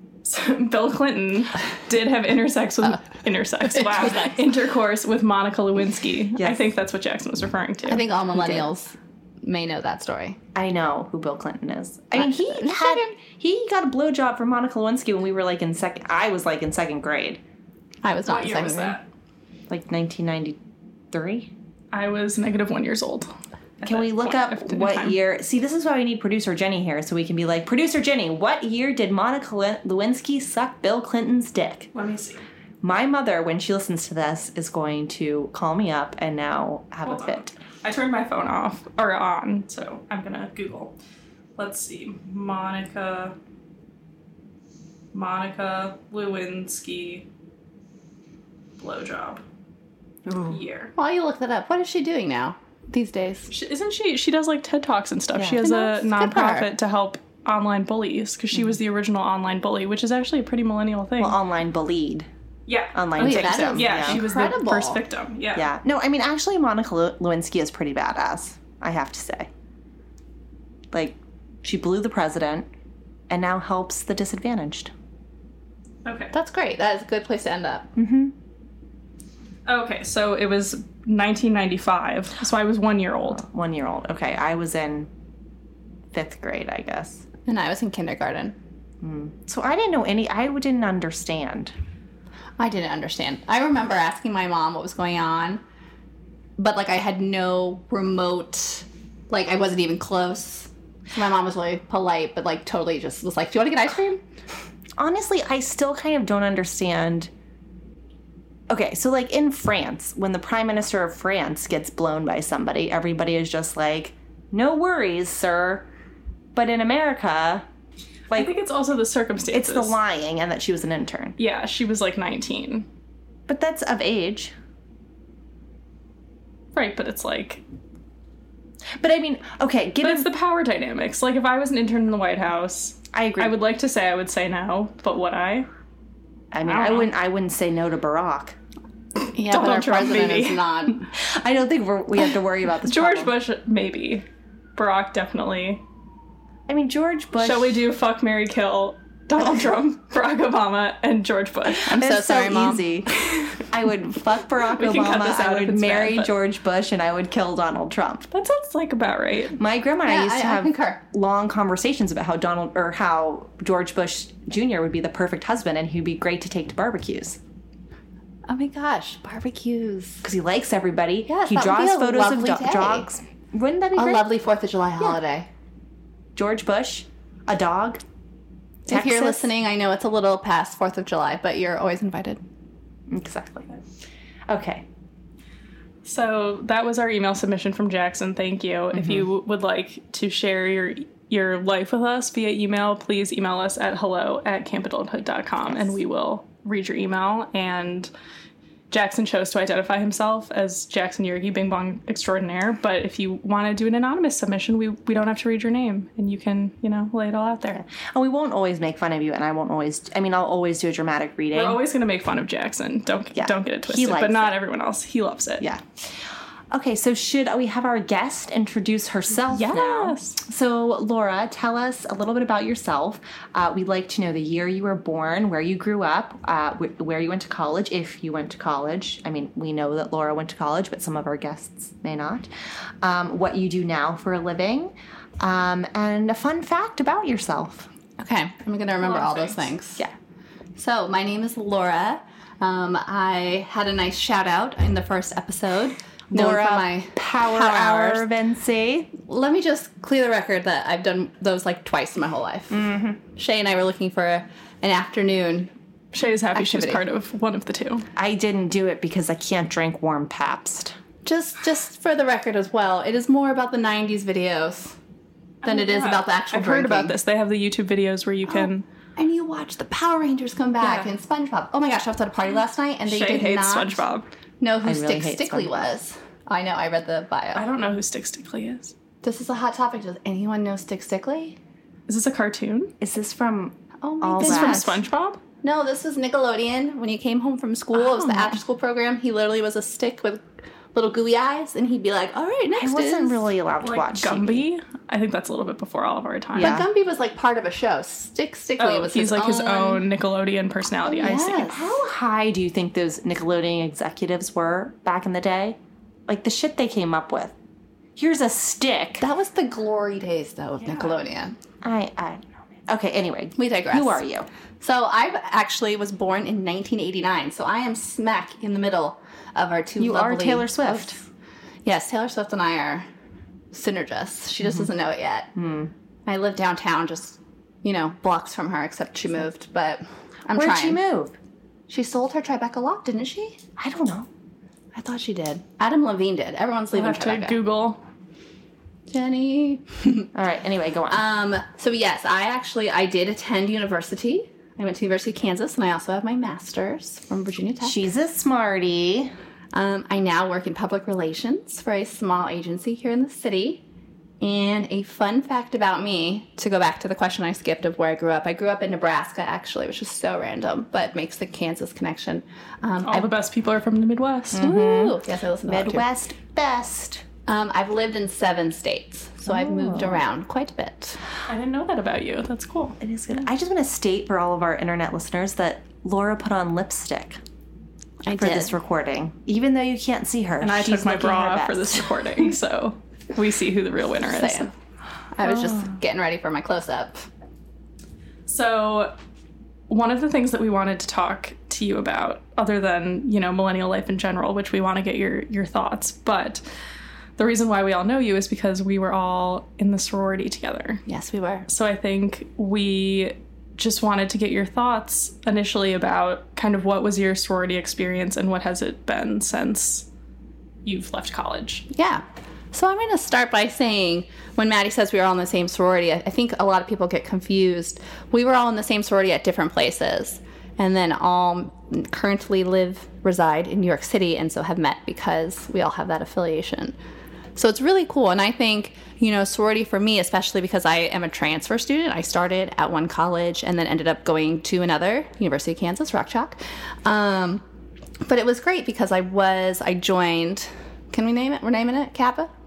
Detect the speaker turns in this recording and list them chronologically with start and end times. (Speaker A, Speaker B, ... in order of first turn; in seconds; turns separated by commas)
Speaker A: 0.2-8.0, Speaker B: 6.4-6.7, Speaker C: 7.9-10.4, Speaker B: 8.4-8.6, Speaker B: 10.6-17.4, Speaker C: 12.2-13.1, Speaker C: 18.0-19.0, Speaker A: 18.3-19.1, Speaker B: 19.7-20.6, Speaker B: 21.1-21.5, Speaker A: 21.9-25.2, Speaker B: 23.8-31.9, Speaker A: 31.9-32.4, Speaker B: 32.8-37.5, Speaker A: 37.0-41.0, Speaker A: 41.6-43.4, Speaker A: 45.1-47.3, Speaker A: 48.8-49.4, Speaker B: 50.3-50.6, Speaker A: 50.5-50.9, Speaker C: 51.0-53.5, Speaker A: 53.5-61.4, Speaker B: 55.4-55.6, Speaker C: 55.6-56.7, Speaker B: 61.2-62.3, Speaker A: 62.7-65.7, Speaker B: 62.9-64.2, Speaker C: 63.2-65.0, Speaker B: 65.5-69.5, Speaker B: 70.9-72.7, Speaker B: 73.3-74.9, Speaker A: 76.0-76.3, Speaker C: 76.3-77.9, Speaker B: 78.0-78.3, Speaker A: 79.7-83.4, Speaker B: 83.3-85.1, Speaker B: 86.1-87.3, Speaker C: 87.5-88.6, Speaker B: 89.0-91.7, Speaker C: 92.6-95.6, Speaker C: 96.6-104.2, Speaker B: 105.0-107.3, Speaker B: 108.7-115.9, Speaker B: 116.5-117.7, Speaker A: 118.3-120.0, Speaker B: 119.5-121.3, Speaker A: 121.4-122.9, Speaker B: 123.5-124.5, Speaker A: 126.7-127.6, Speaker B: 129.0-130.3, Speaker A: 130.0-135.7, Speaker B: 133.1-133.6, Speaker B: 136.5-138.6, Speaker A: 136.7-137.1, Speaker C: 139.3-141.1, Speaker A: 139.5-140.6, Speaker B: 141.1-143.3, Speaker A: 142.8-144.2, Speaker A: 144.8-145.8, Speaker B: 146.7-147.8, Speaker A: 147.4-151.9, Speaker C: 151.8-152.9, Speaker B: 151.8-158.3, Speaker A: 153.2-153.7, Speaker A: 154.6-156.3, Speaker A: 158.3-159.6, Speaker B: 159.6-167.4, Speaker C: 160.1-161.0, Speaker C: 168.5-170.2, Speaker B: 170.2-174.3, Speaker C: 171.3-173.1, Speaker C: 173.9-175.5, Speaker B: 176.3-178.0, Speaker B: 178.8-179.5, Speaker C: 178.9-182.4, Speaker B: 183.1-183.8, Speaker B: 184.5-184.9, Speaker A: 186.1-198.1, Speaker B: 188.9-189.3, Speaker B: 195.7-195.9, Speaker A: 198.9-207.8, Speaker B: 207.7-211.8, Speaker A: 211.5-215.6, Speaker B: 213.3-214.6, Speaker B: 215.6-232.5, Speaker A: 219.5-220.4, Speaker B: 233.0-237.9, Speaker C: 238.2-240.0, Speaker A: 239.0-239.7, Speaker C: 240.8-248.3, Speaker B: 246.3-249.1, Speaker C: 249.2-255.7, Speaker B: 252.7-253.2, Speaker A: 256.1-258.1, Speaker C: 256.5-257.0, Speaker B: 258.2-261.0, Speaker C: 261.2-265.0, Speaker A: 265.6-268.9, Speaker C: 265.6-267.1, Speaker C: 268.5-274.0, Speaker A: 270.8-271.1, Speaker A: 273.1-274.3, Speaker C: 274.6-277.7, Speaker B: 274.8-275.9, Speaker A: 277.6-278.9, Speaker C: 279.2-281.6, Speaker A: 282.1-282.9, Speaker B: 283.0-285.0, Speaker C: 284.0-285.0, Speaker A: 284.4-285.4, Speaker C: 285.6-293.5, Speaker B: 287.9-288.6, Speaker B: 292.8-294.6, Speaker A: 293.8-296.8, Speaker B: 296.6-296.9, Speaker C: 296.6-300.1, Speaker A: 298.8-301.7, Speaker C: 301.1-301.9, Speaker B: 301.3-307.5, Speaker B: 308.2-309.2, Speaker C: 309.2-311.6, Speaker B: 311.8-314.5, Speaker C: 313.6-314.2, Speaker C: 314.8-321.2, Speaker B: 320.0-321.2, Speaker C: 321.9-323.1, Speaker C: 323.7-325.6, Speaker B: 325.6-325.9, Speaker C: 326.3-331.0, Speaker B: 330.5-331.4, Speaker C: 331.9-333.6, Speaker B: 333.8-334.3, Speaker C: 334.9-337.6, Speaker A: 336.9-338.0, Speaker C: 339.1-340.3, Speaker B: 340.3-341.2, Speaker C: 341.1-348.1, Speaker B: 347.8-349.3, Speaker C: 349.7-353.8, Speaker C: 354.4-363.3, Speaker A: 363.1-364.6, Speaker B: 364.5-367.2, Speaker C: 364.6-366.1, Speaker C: 367.5-371.2, Speaker B: 369.5-370.2, Speaker A: 371.5-373.0, Speaker B: 373.0-377.4, Speaker C: 378.2-378.7, Speaker B: 378.3-382.2, Speaker A: 380.6-384.7, Speaker C: 384.3-384.7, Speaker C: 385.3-387.3, Speaker B: 385.4-385.9, Speaker A: 388.5-389.1, Speaker A: 389.9-396.6, Speaker A: 397.4-401.0, Speaker C: 401.1-401.7, Speaker A: 401.7-410.1, Speaker A: 410.9-411.9, Speaker C: 411.9-426.9, Speaker C: 427.6-437.6, Speaker C: 438.2-442.5